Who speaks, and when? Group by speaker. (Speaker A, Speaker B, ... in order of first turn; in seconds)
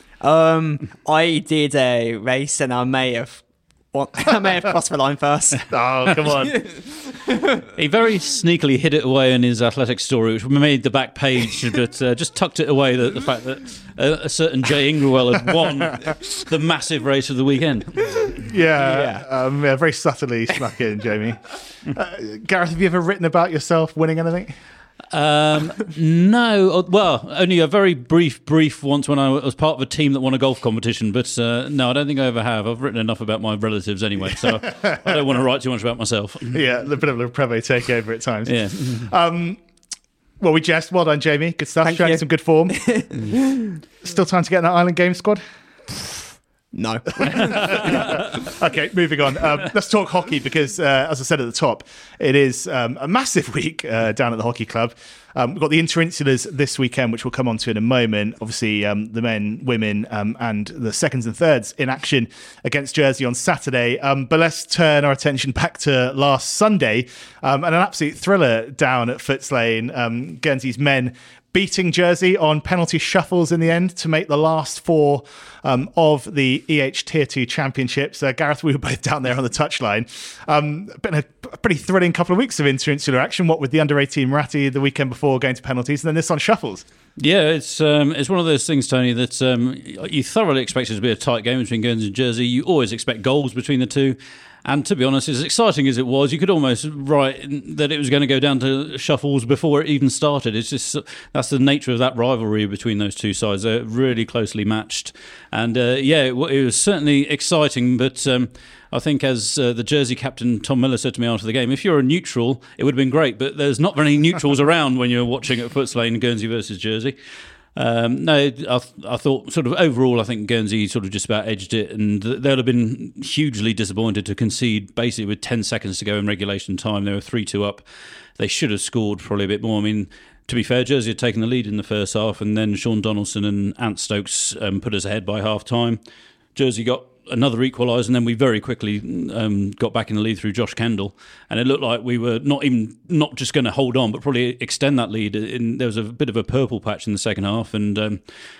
Speaker A: 0.2-5.7, 6.4-7.6, 18.8-19.2, 41.8-42.2, 42.7-43.7, 46.7-48.2
Speaker B: 5.7-6.6, 18.3-24.5, 34.4-35.2, 36.5-39.6, 40.4-43.2, 44.0-45.4, 47.2-86.8
Speaker C: 7.7-18.3, 25.1-36.6, 38.5-39.1, 87.2-117.1, 117.7-127.8, 128.4-136.0, 136.5-148.2